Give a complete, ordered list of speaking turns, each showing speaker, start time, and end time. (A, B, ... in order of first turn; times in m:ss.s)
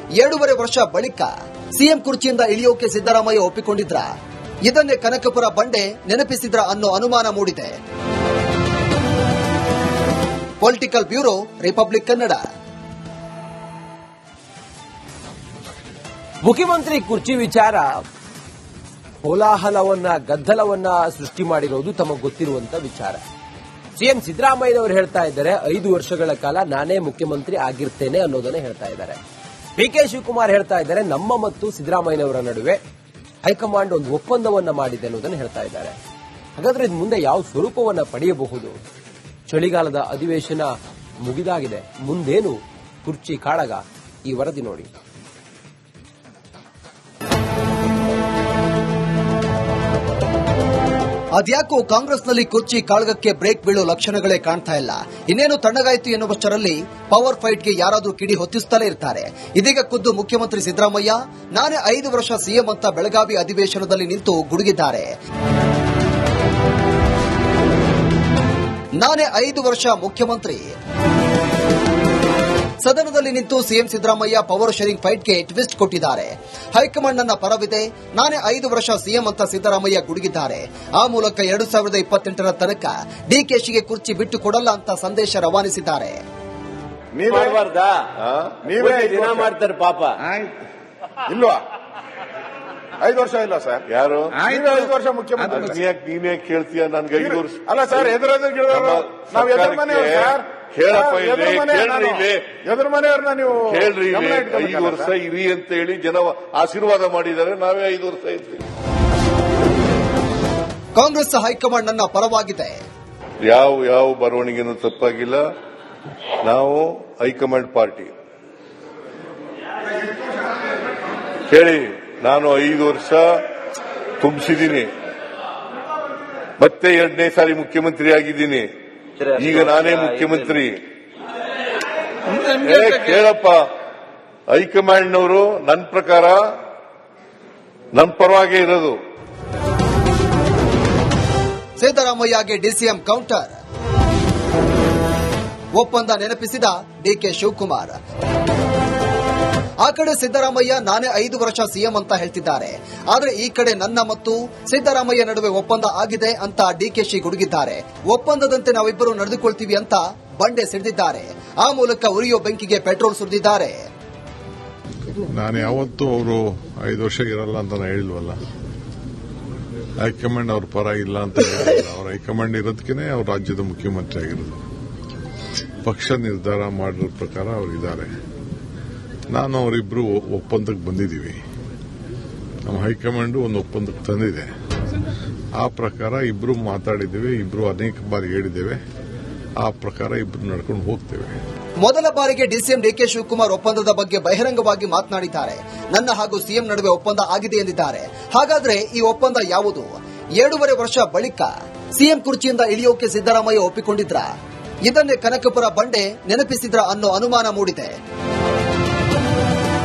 0:00.2-0:04.1 A
0:04.7-0:07.7 A
0:10.6-0:12.4 A
0:16.4-0:18.0 B
0:19.2-0:23.2 B
0:24.0-0:29.2 B
0:29.8-0:32.8 B
0:33.4-0:36.0 B
0:36.6-0:38.8 B
0:39.5-0:44.9 B
0:51.3-1:05.1 A
1:09.0-1:10.7 A
1:12.8-1:26.2 A
1:27.1-1:27.6 C
1:27.3-1:28.1 D
1:28.2-1:28.6 E
1:28.6-1:29.5 C
1:28.8-1:30.4 D
1:31.3-1:31.6 C
1:33.0-1:33.8 C
1:33.9-1:34.5 E
1:34.4-1:35.7 C
1:35.5-1:37.6 E
1:37.2-1:45.1 C
1:38.7-1:42.5 E
1:43.7-1:48.6 E
1:51.0-1:52.8 A
1:53.4-1:55.4 E
1:56.4-1:58.1 E
2:01.5-2:03.4 E
2:04.2-2:04.9 E
2:06.6-2:08.7 E
2:09.2-2:10.4 D
2:09.3-2:10.8 E
2:12.3-2:13.6 E
2:14.5-2:16.4 E
2:17.9-2:19.0 E
2:21.8-2:23.5 A
2:25.8-2:28.0 A
2:29.8-2:43.8 A
2:45.2-2:48.4 F
2:50.0-2:54.6 F
2:55.8-2:58.1 F
2:59.3-3:01.4 F
3:02.6-3:04.5 F
3:05.6-3:08.8 F
3:09.6-3:11.4 F
3:11.8-3:19.9 A
3:20.4-3:24.3 A
3:24.8-3:27.9 A